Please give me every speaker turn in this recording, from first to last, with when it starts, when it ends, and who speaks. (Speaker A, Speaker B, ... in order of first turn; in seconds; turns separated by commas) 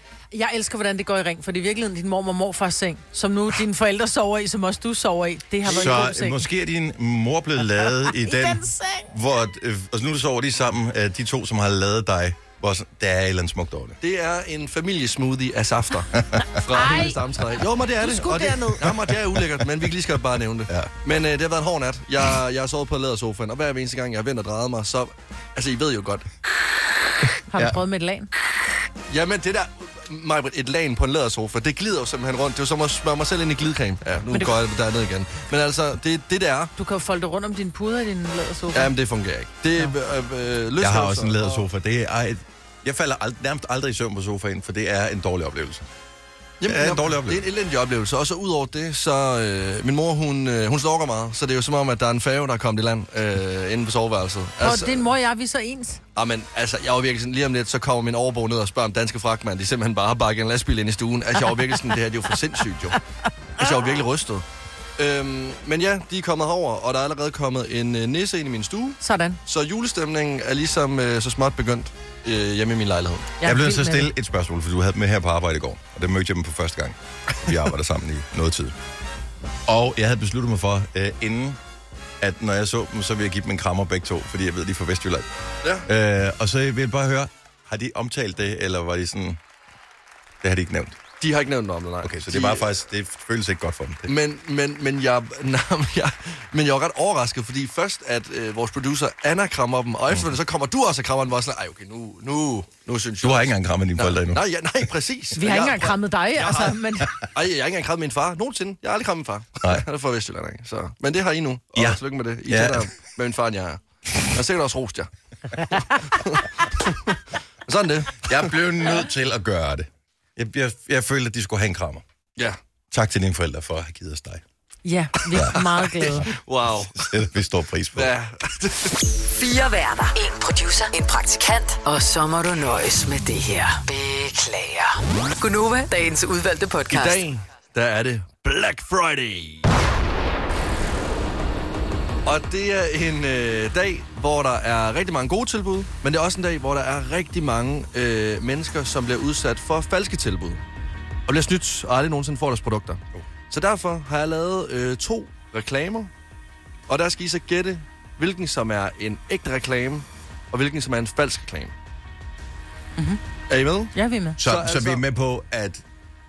Speaker A: 0.3-6.5, Speaker B: 5.6-14.0, Speaker C: 5.7-6.0, Speaker A: 7.7-9.1, Speaker C: 14.0-26.3, Speaker A: 16.7-17.2, Speaker A: 18.0-18.8, Speaker A: 27.5-28.3, Speaker C: 29.1-36.7, Speaker A: 36.8-38.9, Speaker C: 38.7-41.6, Speaker B: 40.8-45.9, Speaker C: 46.6-55.1, Speaker B: 46.6-47.4, Speaker A: 54.6-56.0, Speaker C: 56.1-63.0, Speaker C: 63.6-64.4, Speaker C: 65.0-73.3, Speaker A: 69.0-69.4, Speaker A: 73.4-74.1, Speaker B: 73.4-78.8, Speaker B: 79.7-81.6, Speaker B: 82.2-85.3, Speaker B: 85.8-89.4, Speaker B: 90.4-91.0, Speaker C: 91.2-92.8, Speaker B: 92.0-94.1, Speaker C: 94.1-115.1, Speaker B: 103.2-104.4, Speaker A: 105.4-107.1, Speaker B: 111.7-112.9, Speaker C: 116.1-116.5, Speaker C: 117.7-118.5, Speaker B: 118.3-122.0, Speaker B: 122.9-124.4, Speaker A: 124.8-126.2, Speaker B: 125.3-125.6, Speaker C: 125.5-127.1, Speaker B: 127.0-128.1, Speaker C: 127.9-129.0, Speaker D: 129.4-137.2, Speaker C: 136.9-139.6, Speaker C: 142.2-150.6, Speaker C: 151.3-156.1, Speaker C: 156.9-161.7, Speaker C: 163.5-165.0, Speaker A: 163.9-164.4, Speaker B: 164.4-165.8